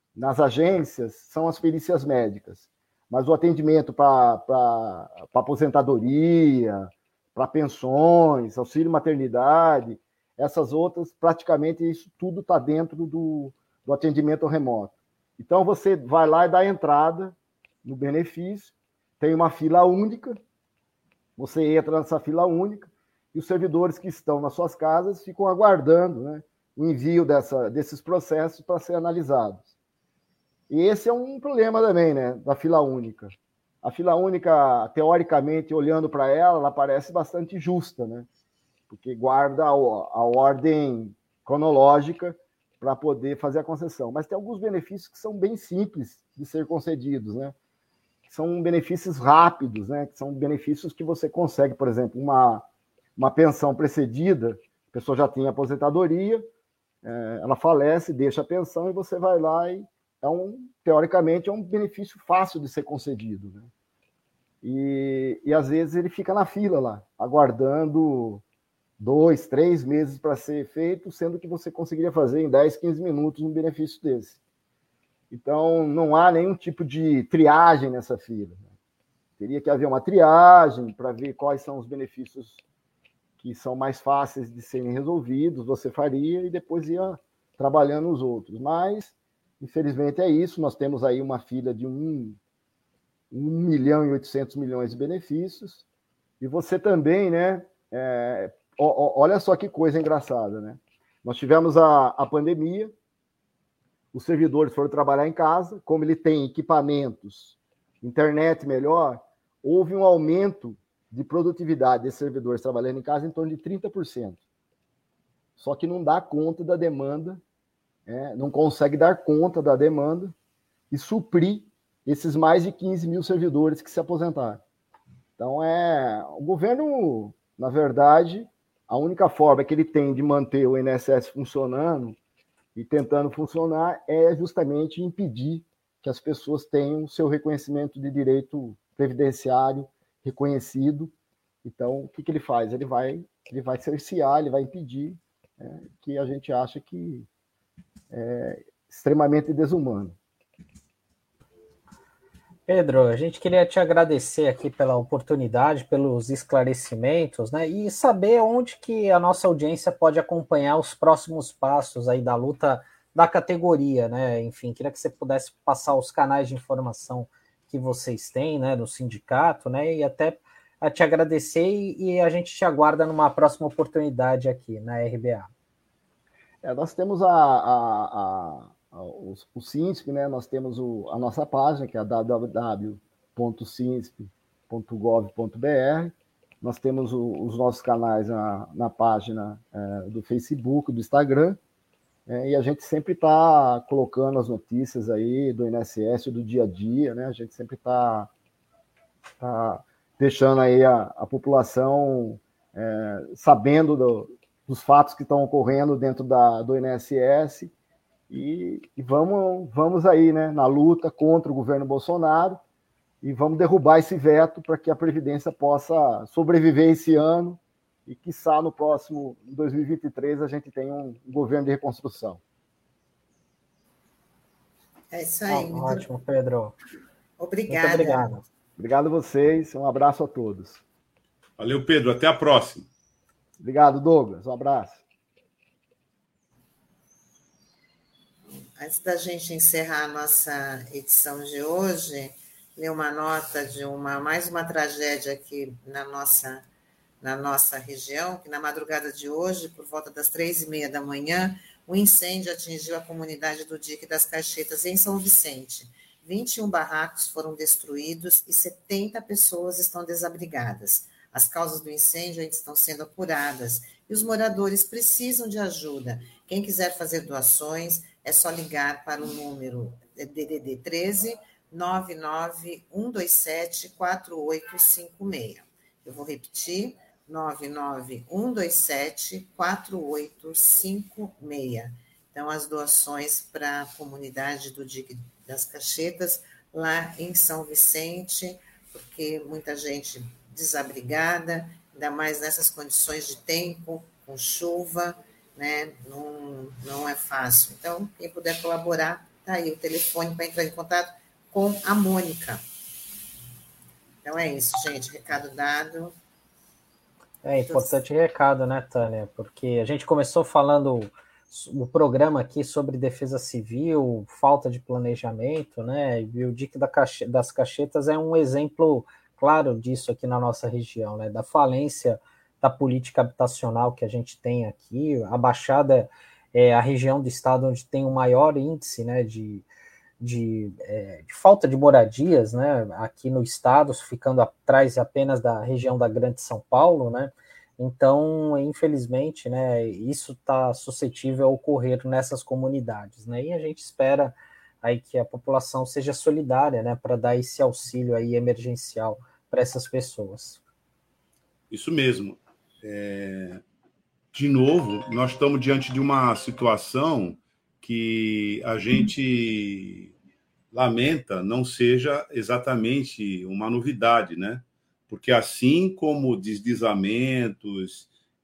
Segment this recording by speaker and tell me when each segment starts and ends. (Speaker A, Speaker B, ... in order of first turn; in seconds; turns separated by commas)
Speaker A: 0.1-20.4, Speaker A: 21.4-29.7, Speaker A: 30.7-33.3, Speaker A: 33.8-38.3, Speaker A: 38.9-47.5, Speaker A: 48.3-52.6, Speaker A: 53.2-56.5, Speaker A: 57.0-63.7, Speaker A: 64.6-68.4, Speaker A: 69.0-74.4, Speaker A: 75.3-78.6, Speaker A: 79.4-82.6, Speaker A: 83.4-92.4, Speaker A: 93.3-95.8, Speaker A: 96.4-102.9, Speaker A: 104.1-114.4, Speaker A: 115.6-117.4, Speaker A: 118.1-120.3, Speaker A: 120.9-124.6, Speaker A: 125.4-132.2, Speaker A: 132.8-141.1, Speaker A: 141.6-147.3, Speaker A: 148.1-150.2, Speaker B: 152.7-175.5, Speaker A: 176.6-191.6, Speaker A: 192.3-198.3, Speaker A: 199.4-207.7, Speaker A: 208.3-212.6, Speaker A: 213.2-222.4, Speaker C: 225.1-226.1, Speaker B: 225.5-226.8, Speaker C: 227.4-228.3, Speaker B: 227.7-228.4, Speaker A: 228.8-230.8, Speaker D: 231.6-232.9, Speaker A: 233.6-235.0, Speaker C: 238.8-246.6, Speaker C: 247.2-302.6, Speaker C: 304.2-306.1, Speaker B: 307.4-329.6, Speaker C: 307.7-308.0, Speaker B: 330.2-350.6, Speaker D: 351.7-353.6, Speaker D: 354.3-360.1, Speaker D: 360.7-368.1